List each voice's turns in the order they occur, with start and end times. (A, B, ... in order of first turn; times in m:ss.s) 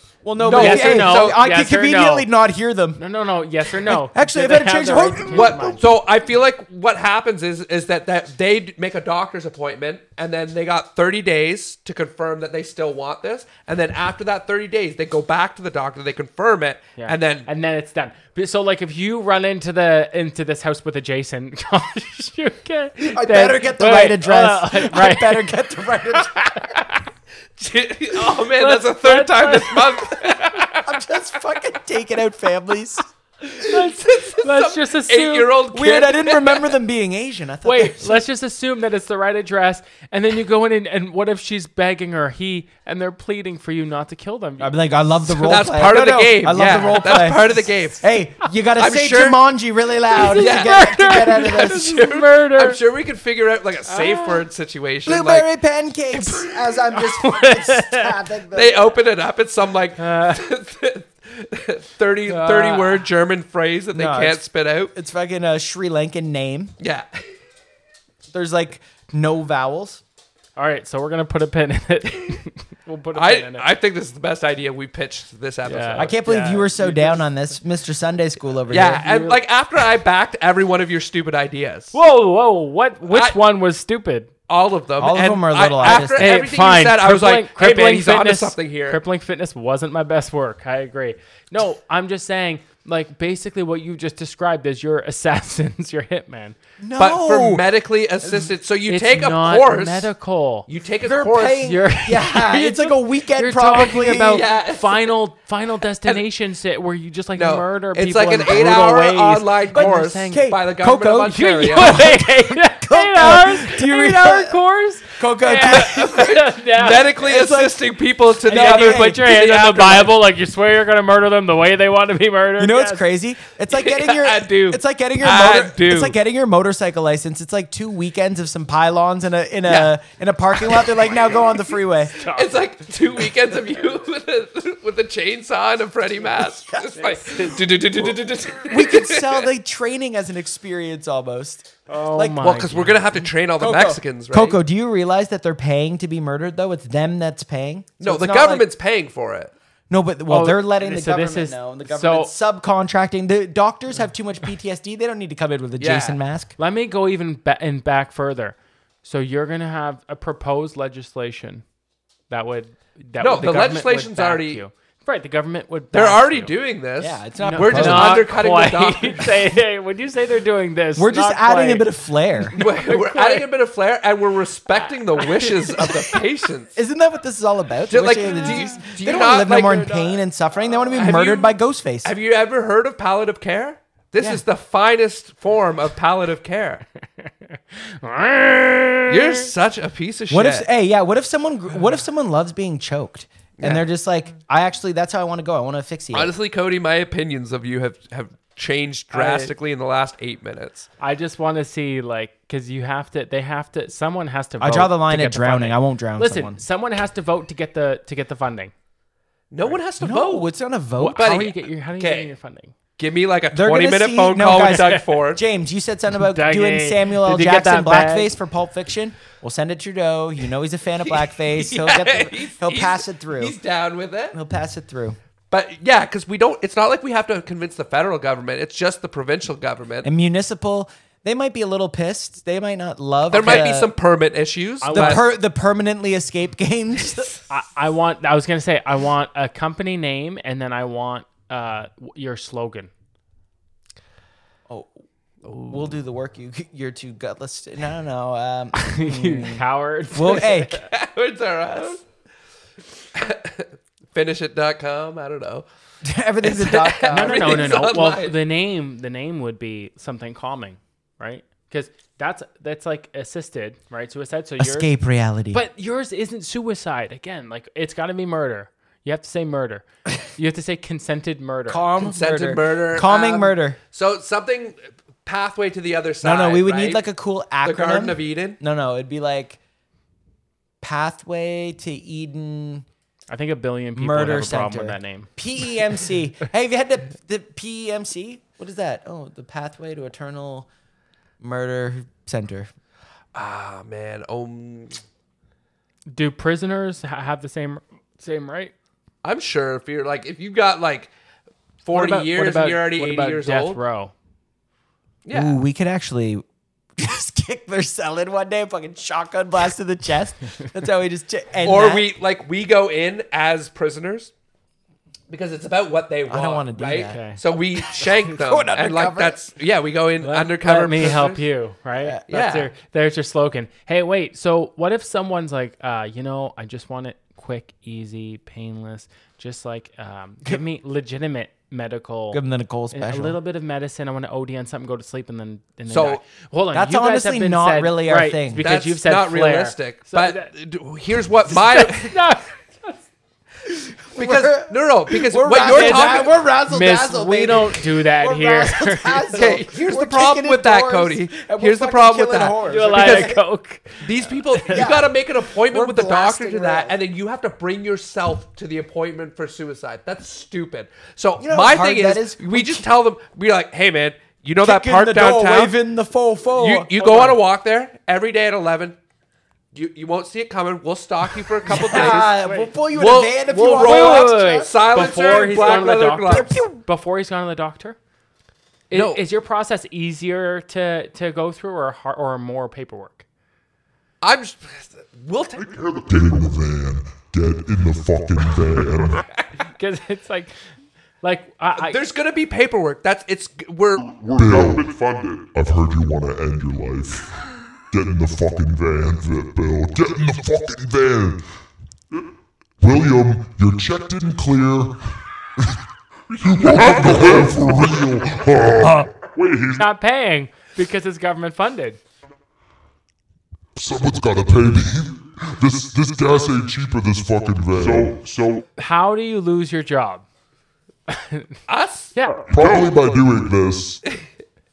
0:00.2-0:03.0 A
0:00.4-0:01.4 B
0:00.5-0:02.3 C
0:03.0-0:05.9 C
0:03.9-0:05.8 A
0:05.3-0:17.5 B
0:17.0-0:25.7 C
0:23.0-0:26.5 A
0:27.6-0:30.9 B
0:28.2-0:30.4 C
0:30.8-0:33.1 A
0:33.5-0:35.6 C
0:33.6-0:36.7 B
0:35.7-0:38.2 A
0:37.6-0:44.8 C
0:44.6-0:52.0 A
0:45.4-0:48.0 B
0:48.8-0:49.4 B
0:50.1-0:52.8 C
0:50.4-0:55.5 B
0:53.9-0:54.4 C
0:55.1-0:58.9 A
0:56.9-0:58.2 C
0:58.5-1:04.9 B
1:00.0-1:00.4 C
1:02.3-1:03.1 C
1:03.9-1:04.4 A
1:04.9-1:06.7 A
1:06.8-1:07.2 B
1:08.3-1:10.0 A
1:10.6-1:13.7 C
1:13.1-1:16.2 B
1:15.6-1:17.5 C
1:16.0-1:19.0 A
1:18.7-1:22.0 B
1:18.8-1:19.4 C
1:21.9-1:24.3 C
1:23.1-1:23.4 B
1:24.5-1:29.0 B
1:25.0-1:26.3 A
1:25.8-1:36.6 C
1:36.8-1:37.6 A
1:37.0-1:40.1 B
1:38.9-1:40.7 C
1:40.7-1:41.7 B
1:41.0-1:44.4 A
1:41.6-1:50.5 C
1:44.1-1:45.1 B
1:47.4-1:52.0 B
1:49.7-1:54.6 A
1:51.3-1:57.2 C
1:55.2-1:56.3 A
1:55.6-2:00.2 B
1:56.9-1:57.8 A
1:58.4-1:59.2 A
1:58.5-2:03.0 C
2:02.6-2:12.3 A
2:03.7-2:06.2 B
2:09.6-2:09.9 B
2:10.6-2:11.1 B
2:12.2-2:12.7 C
2:12.2-2:19.4 B
2:17.0-2:17.8 C
2:18.6-2:22.6 A
2:21.9-2:23.2 C
2:22.4-2:24.6 B
2:23.5-2:28.6 A
2:28.0-2:29.5 B
2:29.9-2:36.6 A
2:30.3-2:32.3 C
2:35.8-2:36.2 B
2:36.6-2:41.6 C
2:42.3-2:46.5 C
2:43.2-2:44.6 B
2:45.9-2:49.3 B
2:47.0-2:48.3 A
2:47.4-2:51.9 C
2:51.0-2:52.6 A
2:52.5-2:53.5 C
2:52.6-2:56.7 B
2:54.7-2:56.0 C
2:56.7-3:02.1 A
2:57.9-3:00.2 B
2:58.4-2:58.6 C
3:01.0-3:06.8 B
3:07.2-3:09.5 C
3:09.1-3:10.7 B
3:10.3-3:16.3 A
3:13.6-3:13.8 B
3:16.1-3:20.9 B
3:19.1-3:19.5 C
3:21.0-3:28.7 C
3:24.6-3:26.6 A
3:29.5-3:30.5 B
3:30.0-3:31.4 A
3:31.0-3:32.7 C
3:31.2-3:32.3 B
3:33.0-3:35.4 B
3:33.5-3:43.6 A
3:34.6-3:35.0 C
3:36.2-3:38.3 C
3:41.1-3:44.4 B
3:44.3-3:45.2 A
3:45.5-3:50.1 B
3:50.0-3:53.9 A
3:53.3-3:55.2 B
3:53.4-3:53.6 C
3:54.8-3:55.3 C
3:54.9-3:57.3 A
3:57.5-4:02.9 C
4:05.4-4:05.8 B
4:05.7-4:09.6 A
4:08.8-4:10.8 C
4:10.1-4:10.8 A
4:10.8-4:12.0 B
4:13.1-4:15.6 B
4:16.0-4:17.9 A
4:16.4-4:18.4 B
4:17.1-4:24.9 C
4:24.6-4:25.6 A
4:25.5-4:31.9 C
4:31.7-4:33.8 A
4:32.0-4:37.1 B
4:36.2-4:39.6 A
4:37.6-4:38.6 B
4:40.8-4:42.9 A
4:43.3-4:45.3 C
4:44.0-4:50.7 A
4:51.4-4:52.7 A
4:53.4-4:55.0 B
4:56.1-4:58.7 C
4:59.2-5:01.1 B
5:01.8-5:03.8 B
5:01.9-5:04.1 C
5:05.2-5:05.6 B
5:05.3-5:06.4 A
5:07.0-5:12.1 A
5:11.6-5:14.3 B
5:15.3-5:21.4 B
5:16.3-5:19.4 A
5:17.1-5:17.4 C
5:20.2-5:40.5 C
5:22.3-5:22.7 B
5:32.3-5:33.4 A
5:35.9-5:36.2 B
5:36.7-5:38.6 A
5:38.6-5:42.2 B
5:41.5-5:43.0 C
5:43.7-5:53.4 A
5:44.2-5:47.0 B
5:45.6-5:49.6 C
5:49.3-5:53.3 B
5:52.7-5:54.9 C
5:54.0-6:05.7 B
5:54.6-5:56.9 A
6:01.4-6:02.9 A
6:04.6-6:07.4 A
6:06.6-6:09.0 B
6:09.7-6:12.4 B
6:11.6-6:14.7 A
6:11.9-6:12.7 C
6:12.9-6:16.5 B
6:13.8-6:18.0 C
6:16.3-6:16.8 A
6:18.9-6:23.2 C
6:18.9-6:19.2 B
6:24.2-6:25.7 B
6:25.6-6:29.2 D
6:29.8-6:30.5 C
6:31.2-6:32.0 C
6:31.8-6:34.1 B
6:34.0-6:37.3 D
6:37.9-6:41.4 D
6:42.8-6:45.0 D
6:46.4-6:49.8 D
6:49.8-6:52.0 C
6:53.8-6:58.6 D
6:58.8-7:00.2 C
7:01.1-7:01.5 C
7:01.7-7:03.2 B
7:02.2-7:02.5 C
7:02.5-7:04.0 D